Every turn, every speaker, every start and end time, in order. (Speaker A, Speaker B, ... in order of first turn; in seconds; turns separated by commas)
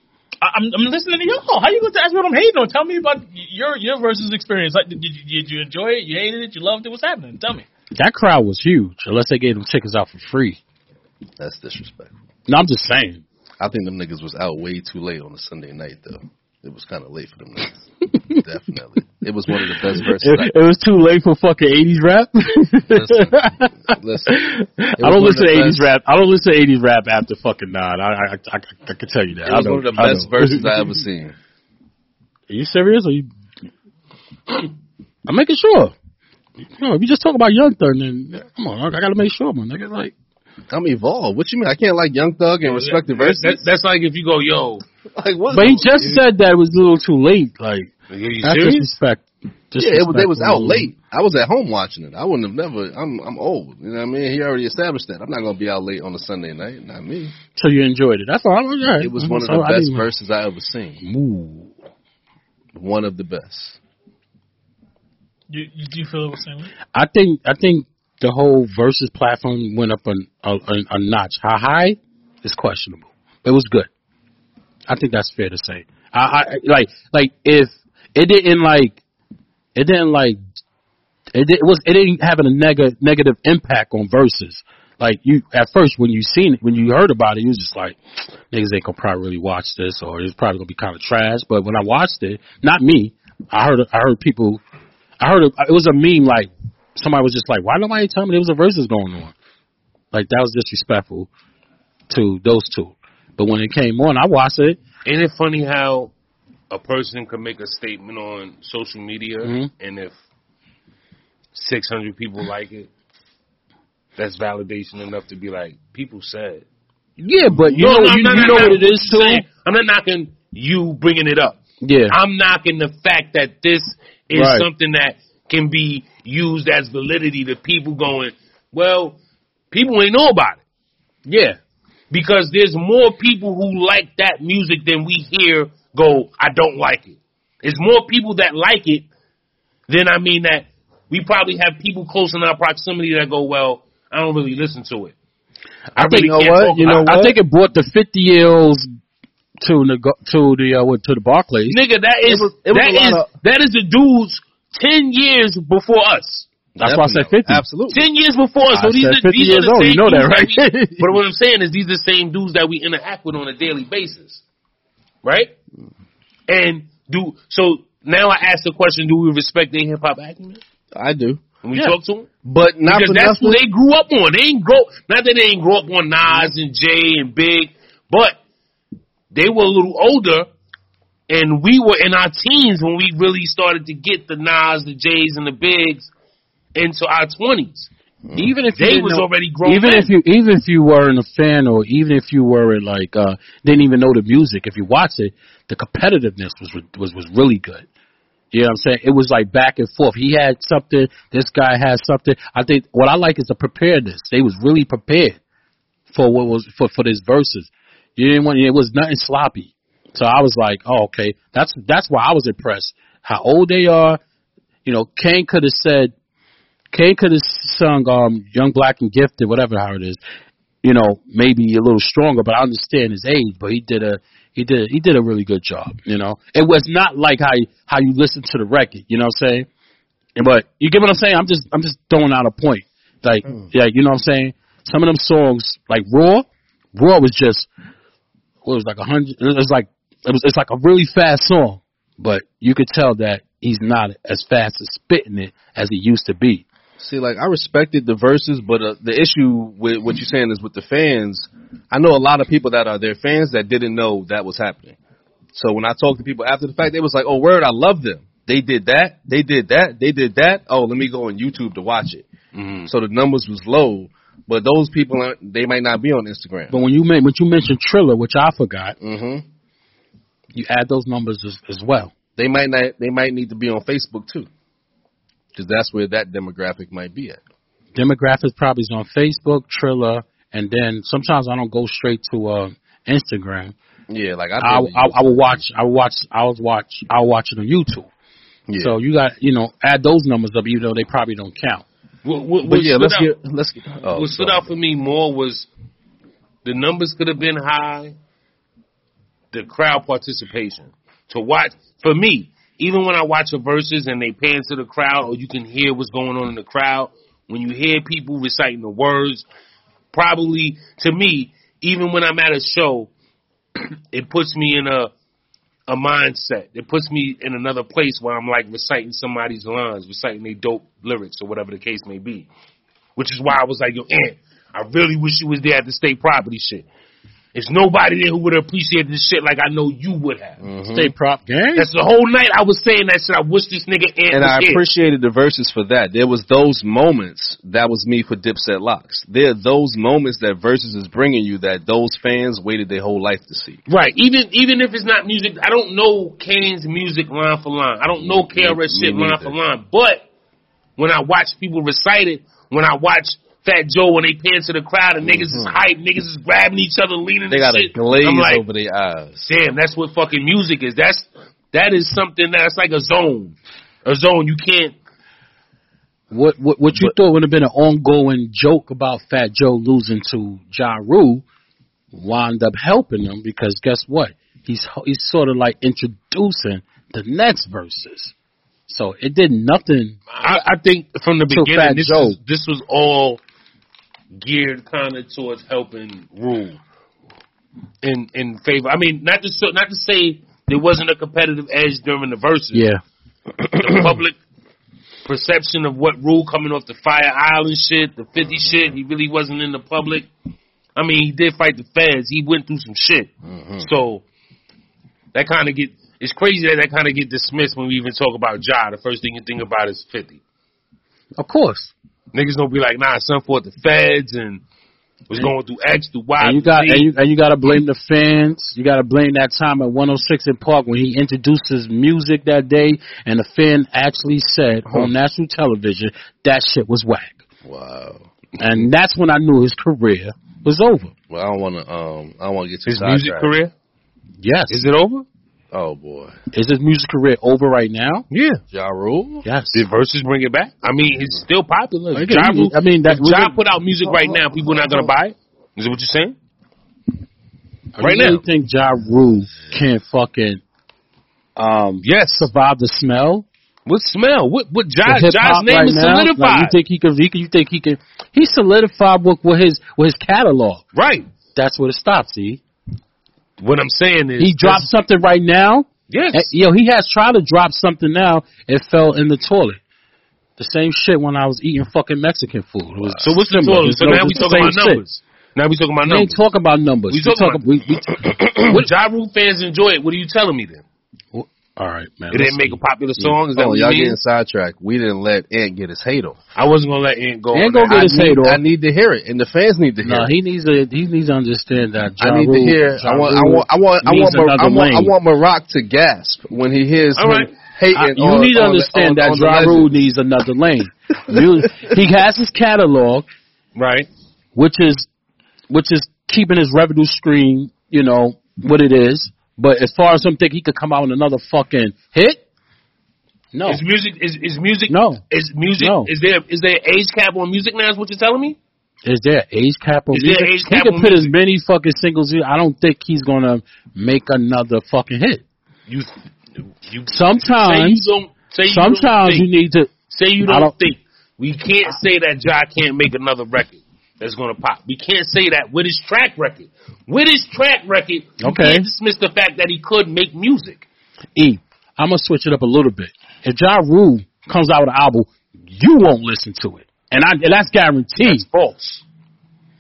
Speaker A: 0.4-7.7, Speaker B: 8.0-10.6, Speaker C: 11.4-12.2, Speaker B: 12.5-13.2, Speaker C: 13.6-20.5, Speaker B: 20.0-30.8, Speaker C: 22.9-24.5, Speaker C: 25.0-25.9, Speaker C: 29.4-31.4, Speaker B: 32.5-33.3, Speaker B: 35.3-35.9, Speaker B: 36.8-40.1, Speaker C: 40.7-43.6, Speaker D: 42.7-44.8, Speaker C: 45.1-46.2, Speaker B: 45.5-47.9, Speaker D: 48.1-48.9, Speaker B: 48.4-50.9, Speaker C: 49.8-57.4, Speaker B: 57.5-60.1, Speaker C: 59.0-61.0, Speaker B: 61.0-61.7, Speaker C: 62.8-63.8, Speaker A: 65.5-66.7, Speaker B: 66.9-73.9, Speaker B: 74.9-79.0, Speaker B: 79.8-80.4, Speaker B: 81.3-88.0, Speaker B: 88.5-94.6, Speaker B: 95.2-99.3, Speaker B: 100.1-101.3, Speaker B: 102.1-104.8, Speaker D: 105.0-106.1, Speaker D: 106.7-110.1, Speaker B: 109.4-109.7, Speaker D: 111.5-112.9, Speaker D: 114.2-116.7, Speaker B: 117.2-119.5, Speaker D: 117.7-129.2, Speaker B: 121.8-122.2, Speaker B: 124.3-124.7, Speaker D: 129.7-130.6, Speaker B: 131.3-131.6, Speaker D: 132.1-139.1, Speaker D: 139.9-145.2, Speaker D: 146.0-147.2, Speaker B: 146.0-148.9, Speaker C: 146.1-147.4, Speaker B: 149.6-151.8, Speaker D: 151.7-156.5, Speaker C: 152.2-153.3, Speaker C: 156.8-158.0, Speaker B: 156.8-157.6, Speaker D: 157.9-164.4, Speaker B: 158.7-161.1, Speaker D: 165.2-165.5, Speaker D: 166.5-170.6, Speaker C: 170.9-171.4, Speaker D: 171.6-172.3, Speaker C: 172.4-173.6, Speaker D: 172.9-178.4, Speaker D: 179.3-180.5, Speaker D: 181.3-186.1, Speaker D: 186.8-187.9, Speaker B: 188.4-197.9, Speaker D: 188.8-190.1, Speaker B: 198.5-205.4, Speaker B: 206.1-214.2, Speaker B: 214.8-216.1, Speaker B: 216.9-220.2, Speaker B: 220.8-229.7, Speaker B: 230.4-237.7, Speaker B: 238.7-246.7, Speaker C: 247.0-255.0, Speaker C: 255.6-262.3, Speaker D: 262.6-262.9, Speaker C: 262.9-266.8, Speaker B: 266.7-269.0, Speaker C: 269.0-269.4, Speaker B: 270.6-272.1, Speaker C: 272.4-274.5, Speaker C: 275.6-277.4, Speaker B: 277.9-283.8, Speaker C: 284.1-285.6, Speaker B: 284.6-288.1, Speaker C: 288.7-289.0, Speaker B: 288.8-291.8, Speaker D: 292.2-293.3, Speaker C: 292.6-294.7, Speaker D: 294.1-295.7, Speaker D: 296.6-298.1, Speaker D: 299.5-309.4, Speaker D: 310.1-313.1, Speaker D: 314.1-315.1, Speaker D: 315.9-322.5, Speaker D: 323.2-326.9, Speaker D: 327.5-330.6, Speaker C: 330.6-331.1, Speaker B: 330.9-331.9, Speaker D: 331.8-334.8, Speaker C: 334.3-343.8, Speaker D: 343.9-350.2, Speaker C: 348.2-349.6, Speaker D: 351.0-358.6, Speaker C: 355.2-355.8, Speaker C: 357.5-359.5, Speaker D: 359.4-364.9, Speaker B: 366.3-371.4, Speaker B: 372.1-378.3, Speaker B: 378.9-380.2, Speaker D: 380.3-383.4, Speaker B: 381.5-382.4, Speaker D: 384.4-386.8, Speaker D: 388.0-392.8, Speaker B: 392.7-393.0, Speaker D: 393.7-394.4, Speaker D: 395.2-400.3, Speaker D: 401.0-404.2, Speaker C: 403.5-403.9, Speaker D: 405.3-410.4, Speaker B: 411.4-411.9, Speaker D: 412.3-414.6, Speaker D: 415.3-417.1, Speaker B: 416.4-427.4, Speaker C: 427.6-428.3, Speaker B: 428.6-431.1, Speaker C: 431.3-433.5, Speaker D: 432.9-433.7, Speaker B: 434.4-434.8, Speaker D: 434.7-435.2, Speaker C: 435.7-436.4, Speaker B: 436.5-438.2, Speaker D: 438.3-438.6, Speaker C: 438.7-439.4, Speaker B: 439.4-439.8, Speaker D: 439.7-446.4, Speaker B: 442.1-443.6, Speaker C: 444.7-445.1, Speaker B: 448.0-450.6, Speaker D: 448.0-448.4, Speaker B: 451.6-453.4, Speaker D: 452.0-452.5, Speaker D: 453.9-456.8, Speaker B: 455.1-460.8, Speaker D: 460.9-461.3, Speaker B: 461.6-462.6, Speaker D: 463.6-464.9, Speaker B: 464.4-469.8, Speaker D: 466.1-466.5, Speaker B: 470.6-475.0, Speaker D: 473.2-476.4, Speaker B: 476.1-478.2, Speaker D: 477.1-477.6, Speaker D: 478.6-480.8, Speaker B: 481.3-483.3, Speaker D: 482.3-484.2, Speaker C: 483.5-486.4, Speaker D: 486.6-488.3, Speaker B: 487.5-488.6, Speaker C: 487.9-490.3, Speaker B: 490.0-495.1, Speaker C: 492.2-499.9, Speaker D: 497.2-497.5, Speaker B: 497.9-503.3, Speaker D: 503.8-504.1, Speaker B: 504.6-505.1, Speaker B: 505.7-512.4, Speaker B: 513.5-513.8, Speaker D: 513.7-518.6, Speaker B: 514.9-515.2, Speaker B: 515.8-516.1, Speaker B: 519.0-525.4, Speaker D: 520.1-521.3, Speaker D: 526.9-529.5, Speaker B: 527.1-528.1, Speaker B: 528.7-530.7, Speaker D: 530.1-540.9, Speaker B: 538.4-538.9, Speaker B: 541.4-548.5, Speaker D: 548.2-549.0